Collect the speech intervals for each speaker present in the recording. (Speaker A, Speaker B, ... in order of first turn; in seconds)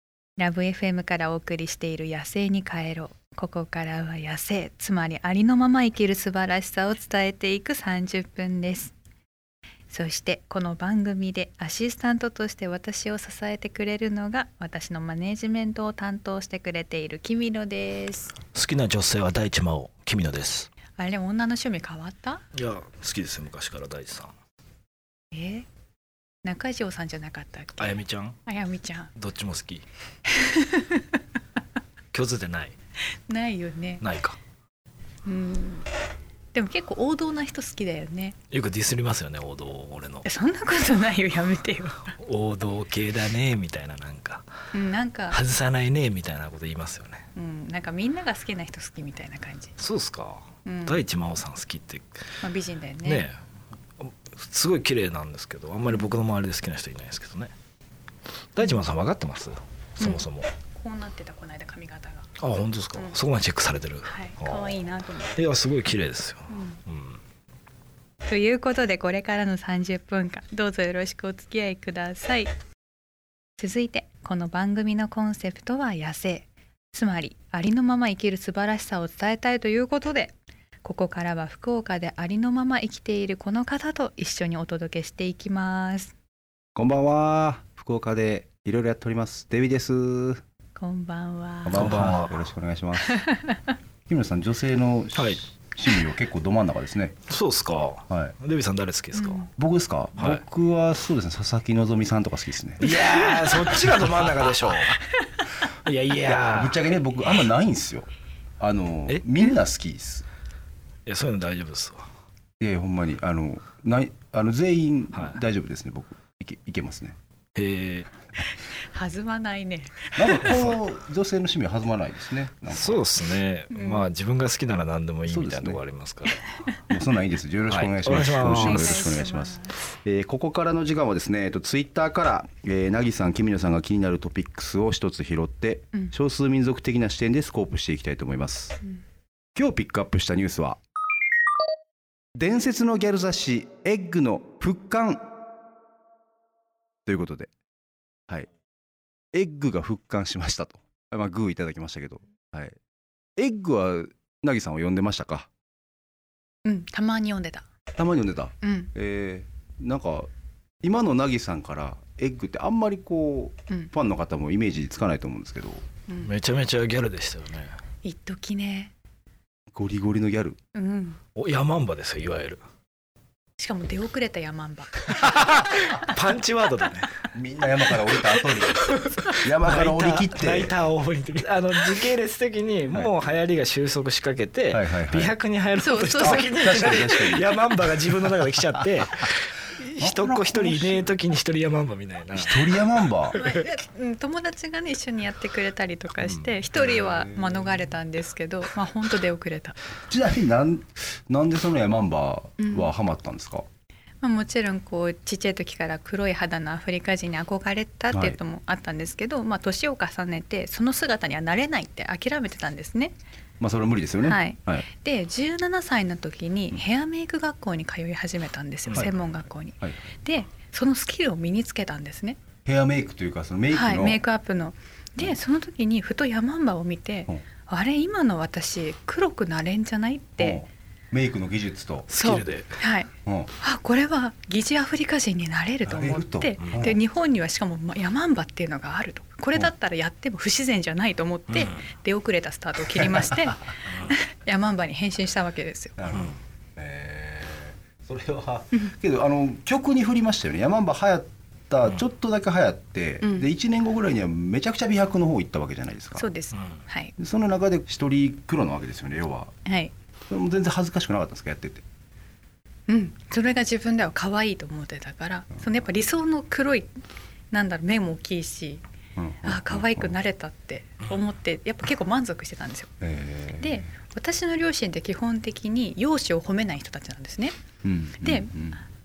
Speaker A: 0.4-8.9, 9.9-18.4, 21.0-22.4, 25.3-25.7, 26.4-29.1, 30.3-31.2, 33.3-34.0, 35.2-35.9, 36.5-38.4, 40.2-42.1, 44.7-45.4, 47.3-49.8, 50.6-51.0, 52.4-53.3, 60.0-62.3, 64.1-65.4, 66.5-66.8, 68.2-72.5, 73.6-86.1, 90.8-92.0, 93.1-93.7, 99.1-99.5, 102.9-103.8, 105.1-105.4, 118.5-120.7, 123.7-124.1, 128.5-129.8, 156.7-157.7, 158.6-158.9, 168.0-168.9, 170.7-171.2, 173.6-175.3, 185.8-187.1, 193.3-199.8, 202.6-202.9, 204.2-213.2, 214.2-222.4, 223.7-230.6, 232.2-246.0, 253.2-253.5, 256.2-257.1, 259.6-259.9, 262.9-266.9, 267.5-268.8, 269.4-272.9, 273.6-277.5, 278.2-278.5
Speaker B: 18.5-20.7, 22.5-24.3, 27.8-28.4, 29.1-29.8, 32.1-32.8, 34.0-34.4, 38.5-40.3, 42.2-44.5, 45.3-47.3, 49.8-52.4, 53.0-53.3, 54.0-57.5, 58.5-60.5, 62.4-64.8, 65.4-67.2, 91.7-92.5, 95.1-95.4, 97.3-99.5, 100.2-100.4, 102.8-105.0, 105.8-107.5, 111.1-112.1, 115.1-115.4, 117.5-118.1, 122.7-126.5, 127.7-129.1, 166.2-167.8, 171.3-172.6, 175.1-177.3, 177.9-193.5, 218.9-219.1, 232.1-232.8, 241.5-241.8
Speaker C: 86.8-90.4, 91.6-93.2, 94.1-97.2, 98.1-98.3, 99.6-102.9, 106.2-110.2, 112.6-117.2, 120.2-123.0, 125.3-125.8, 126.9-138.8, 139.5-140.8, 142.3-145.3, 147.1-147.5, 149.3-152.8, 153.4-155.5, 157.9-160.3, 160.8-165.8, 169.7-170.6, 177.3-180.8, 184.7-185.4, 186.2-187.5, 190.0-191.1, 192.3-193.4, 196.7-197.8, 200.1-203.7, 208.1-208.4, 213.6-214.9, 219.8-220.1, 222.6-224.2, 230.4-232.1, 233.2-233.5, 235.8-237.0, 242.9-243.7, 246.0-256.3, 257.2-259.5, 260.3-261.8, 269.2-270.2, 273.0-273.9, 277.8-278.8